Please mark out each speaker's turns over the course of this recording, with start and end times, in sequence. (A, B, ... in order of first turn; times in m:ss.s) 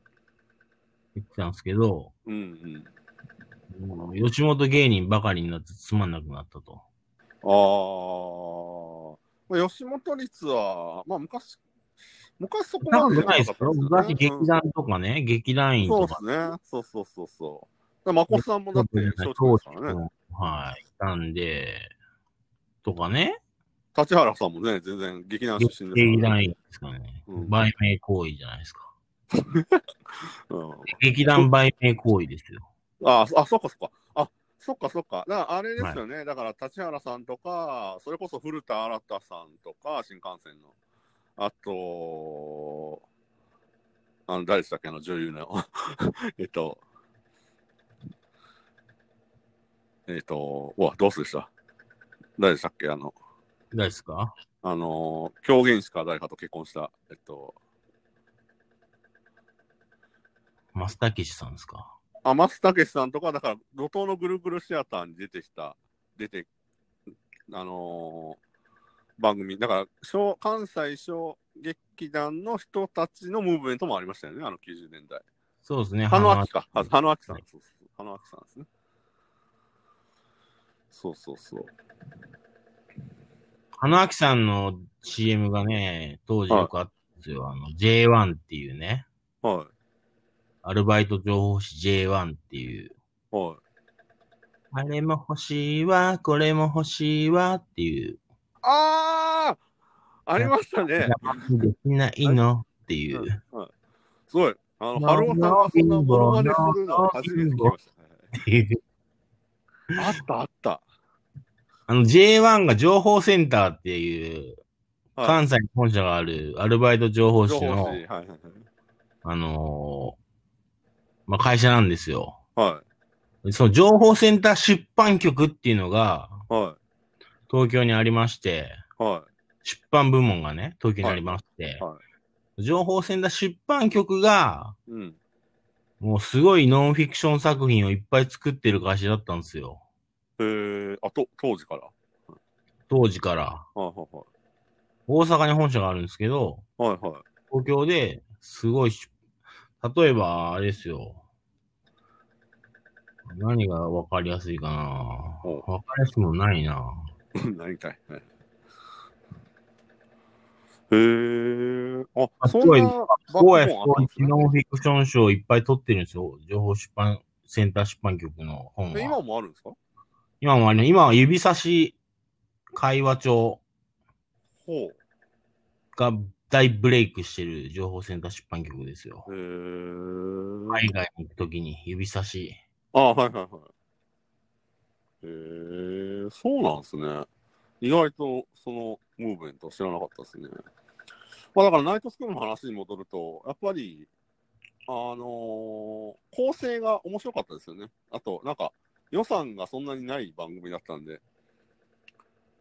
0:01.2-0:02.1 A
0:02.3-0:02.9 B
0:03.7-0:06.8 A
0:07.4-0:11.6 B
0:12.4-0:14.6 B
0:12.8-0:16.2 A
0:15.8-0:20.0 B
0:18.3-0:21.9 A
0:22.8-0:23.4 A
0:24.0-0:26.4 B
0:25.6-0:28.9 A
0:27.3-0:27.6 B
0:29.4-0:29.8 B
0:30.5-0:31.5 B
0:30.9-0:32.7 A
0:33.0-0:40.7 B
0:41.4-0:43.0 B
0:44.3-0:46.8 B
0:50.1-0:51.5 B
0:52.4-0:53.2 B
0:53.7-0:54.3 A
0:54.6-0:57.6 B
1:00.7-1:01.9 A
1:02.2-1:06.5 B
1:07.5-1:08.4 B
1:09.2-1:15.2 B
1:15.6-1:16.5 A
1:16.1-1:18.7 B
1:20.9-1:21.7 B
1:23.8-1:29.1 A
1:29.4-1:29.7 B
1:30.6-1:32.9 A
1:33.3-1:33.6 B
1:34.7-1:38.2 A
1:38.6-1:39.6 B
1:40.3-1:41.4 B
1:40.4-1:43.4 A
1:43.1-1:43.7 B
1:44.3-1:48.3 B
1:45.0-1:47.8 A
1:48.3-1:48.8 A
1:50.0-1:50.8 B
1:51.9-1:54.6 A
1:55.2-1:55.4 B
1:55.2-1:58.0 A
1:57.5-1:58.6 B
1:59.2-2:00.2 A
2:01.3-2:02.4 A
2:02.6-2:02.8 B
2:03.4-2:06.4 A
2:06.5-2:06.8 B
2:07.5-2:08.8 A
2:09.0-2:09.3 B
2:09.6-2:11.8 A
2:11.0-2:12.0 B
2:12.6-2:14.8 A
2:14.9-2:15.2 B
2:16.0-2:19.8 A
2:20.4-2:21.9 B
2:22.9-2:23.7 A
2:23.8-2:24.3 B
2:25.1-2:26.6 A
2:26.8-2:27.2 B
2:27.5-2:29.1 A
2:29.8-2:31.2 A
2:33.3-2:37.0 A
2:37.4-2:38.2 B
2:40.9-2:44.4 B
2:42.4-2:49.2 A
2:48.9-2:49.8 B
2:50.4-2:52.0 A
2:52.7-2:53.6 A
2:54.6-2:55.0 B
2:56.0-2:59.3 A
2:59.3-3:00.8 B
3:00.7-3:02.6 A
3:02.9-3:03.7 B
3:05.2-3:07.3 B
3:07.8-3:10.5 B
3:11.6-3:14.1 B
3:14.9-3:21.2 B